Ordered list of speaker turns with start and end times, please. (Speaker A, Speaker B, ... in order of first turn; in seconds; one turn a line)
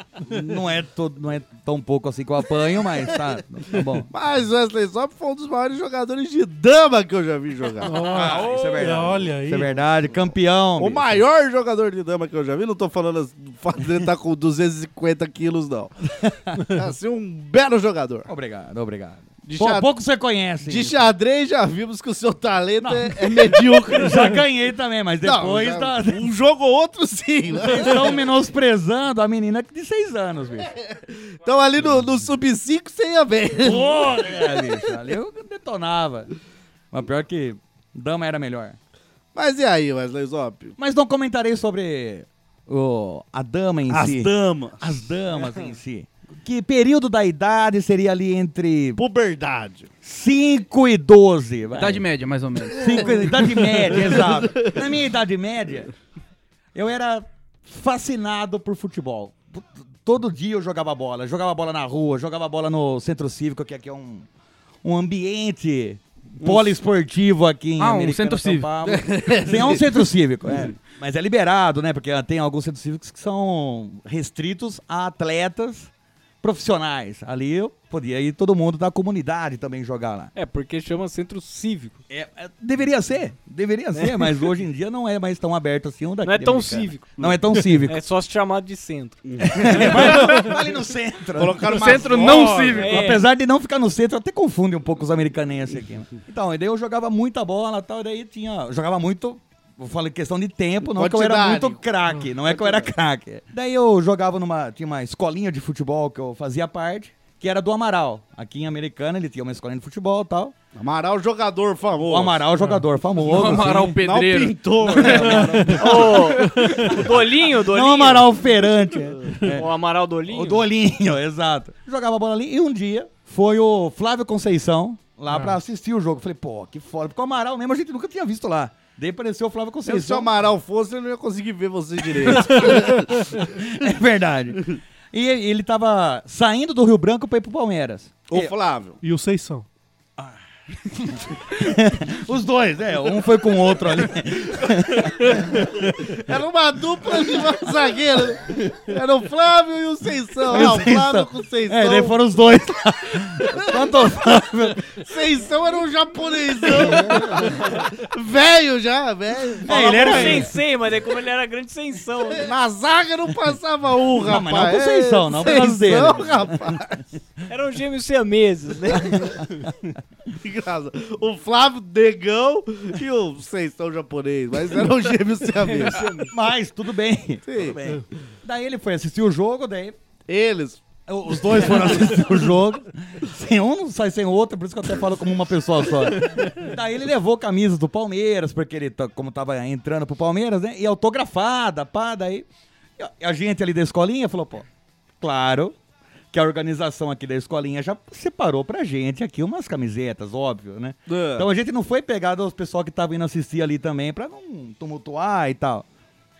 Speaker A: 0.3-4.1
Speaker B: 4.1-8.2
Speaker C: 7.8-9.8
Speaker A: 7.8-11.2
Speaker B: 10.8-16.1
Speaker A: 16.2-16.6
Speaker B: 16.7-18.3
Speaker A: 18.2-21.0
Speaker B: 19.4-19.9
Speaker B: 20.6-24.4
Speaker A: 22.8-26.3
Speaker B: 25.2-28.2
Speaker A: 27.6-30.7
Speaker B: 30.7-34.3
Speaker A: 33.6-36.3
Speaker A: 36.9-38.8
Speaker B: 39.3-40.8
Speaker A: 40.8-49.0
Speaker B: 43.9-44.9
Speaker B: 49.0-49.9
Speaker A: 50.0-52.0
Speaker D: 51.8-53.2
Speaker A: 52.7-55.9
Speaker B: 52.8-54.8
Speaker A: 56.7-64.3
Speaker A: 64.8-75.9
Speaker B: 66.4-66.8
Speaker D: 67.8-68.7
Speaker B: 68.8-70.7
Speaker A: 76.4-80.3
Speaker E: 80.3-82.0
Speaker A: 82.1-88.0
Speaker E: 83.9-84.3
Speaker E: 86.2-87.1
Speaker E: 87.8-89.2
Speaker B: 89.2-90.6
Speaker A: 89.4-92.3
Speaker B: 91.3-93.0
Speaker D: 91.7-93.1
Speaker E: 92.8-93.2
Speaker A: 92.8-110.5
Speaker B: 100.9-101.8
Speaker B: 102.5-102.9
Speaker B: 110.7-112.5
Speaker A: 112.0-114.0
Speaker D: 113.2-116.7
Speaker B: 113.6-116.2
Speaker A: 114.8-119.7
Speaker E: 115.8-118.3
Speaker C: 116.5-116.9
Speaker E: 119.5-120.6
Speaker A: 120.2-130.3
Speaker C: 125.3-125.6
Speaker B: 129.8-133.3
Speaker A: 132.3-138.5
Speaker B: 138.3-139.0
Speaker C: 139.0-139.7
Speaker A: 141.0-145.6
Speaker B: 146.1-152.2
Speaker A: 150.5-154.9
Speaker B: 153.6-153.8
Speaker B: 154.9-160.5
Speaker A: 156.7-157.5
Speaker A: 159.6-160.5
Speaker E: 159.7-162.4
Speaker B: 162.4-167.1
Speaker A: 164.2-166.8
Speaker E: 167.5-169.4
Speaker A: 168.9-169.3
Speaker B: 170.4-176.1
Speaker E: 175.6-176.3
Speaker A: 176.3-179.9
Speaker B: 177.4-177.8
Speaker B: 180.3-182.2
Speaker A: 181.1-192.4
Speaker A: 193.0-194.7
Speaker A: 195.2-195.7
Speaker A: 196.3-205.8
Speaker B: 201.1-201.5